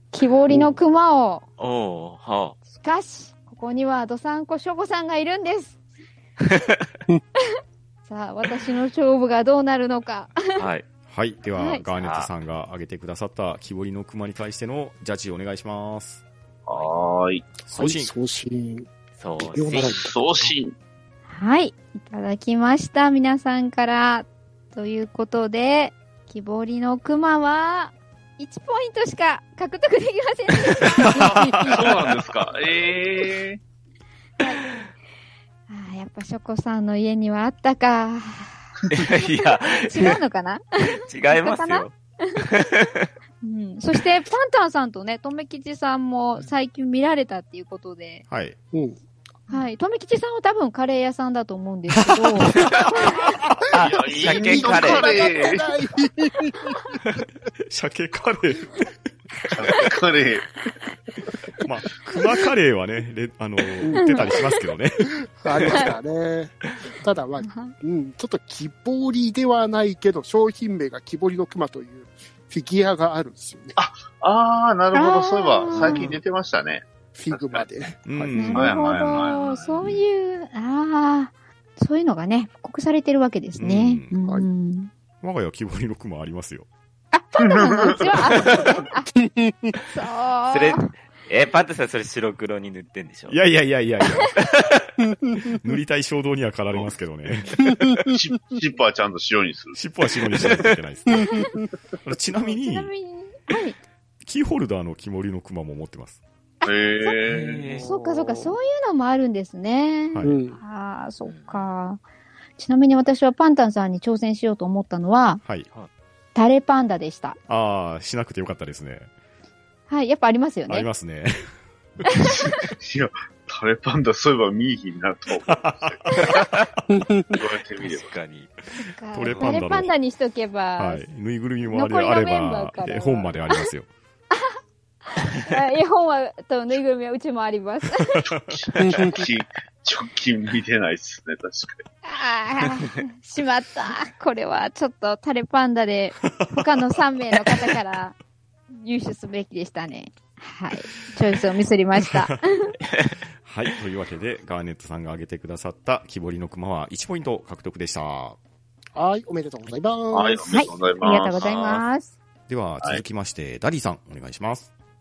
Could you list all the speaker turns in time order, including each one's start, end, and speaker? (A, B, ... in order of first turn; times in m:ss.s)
0:00.1-0:01.4 A
0:01.6-0:02.6 B
0:02.8-0:05.8 A
0:08.1-0:10.5 A
0:10.6-0:10.9 B
0:11.1-0:16.2 C
0:11.6-0:11.8 A
0:11.9-0:12.3 B
0:16.7-0:17.5 D
0:17.7-0:18.1 C
0:17.7-0:18.9 E
0:19.2-0:20.5 B
0:19.4-0:20.1 E
0:19.7-0:20.7 D
0:21.3-0:31.9 A
0:31.4-0:33.6 D
0:35.7-0:42.4 A
0:38.9-0:40.2 B
0:40.9-0:43.1 B
0:43.4-0:48.2 A
0:48.3-0:48.6 C
0:49.5-0:53.1 A
0:52.0-0:52.6 C
0:52.8-0:57.0 E
0:53.7-0:55.2 B
0:53.7-0:55.7 D
0:57.7-0:58.9 C
0:59.5-1:00.6 D
1:01.6-1:05.7 C
1:03.8-1:04.2 E
1:04.0-1:04.4 A
1:05.4-1:13.8 E
1:07.4-1:07.7 A
1:13.8-1:17.6 D
1:14.9-1:16.1 A
1:17.2-1:18.5 E
1:18.1-1:19.0 C
1:18.3-1:24.9 A
1:18.5-1:20.0 D
1:23.6-1:24.1 C
1:25.2-1:26.7 C
1:27.1-1:29.1 A
1:27.4-1:28.7 D
1:29.2-1:29.8 E
1:29.9-1:30.9 A
1:30.5-1:33.4 B
1:33.3-1:34.4 C
1:35.4-1:37.6 C
1:38.1-1:39.8 D
1:39.8-1:41.5 C
1:40.2-1:40.8 B
1:42.0-1:42.9 C
1:42.4-1:43.8 A
1:44.2-1:46.2 C
1:46.6-1:47.2 A
1:46.6-1:47.6 D
1:47.3-1:47.9 B
1:47.3-1:48.6 E
1:47.8-1:52.0 A
1:50.1-1:50.4 C
1:50.2-1:50.6 E
1:51.3-1:51.7 B
1:52.6-1:55.4 A
1:55.4-1:55.7 C
1:56.4-1:57.4 A
1:57.5-1:59.1 C
1:59.9-2:00.9 A
2:00.7-2:01.5 C
2:02.1-2:02.5 A
2:02.2-2:06.2 D
2:05.5-2:06.4 C
2:06.9-2:07.3 E
2:07.3-2:08.2 D
2:07.8-2:08.5 B
2:08.8-2:11.0 A
2:09.1-2:09.9 C
2:09.3-2:09.6 B
2:10.8-2:13.9 C
2:11.7-2:13.6 A
2:15.1-2:18.2 A
2:18.1-2:18.6 C
2:18.5-2:21.8 D
2:18.8-2:19.2 E
2:22.0-2:28.2 A
2:26.4-2:26.7 C
2:28.7-2:32.7 A
2:32.1-2:32.8 C
2:33.4-2:38.4 C
2:39.0-2:40.6 E
2:40.1-2:41.8 D
2:40.5-2:42.1 A
2:42.5-2:44.7 C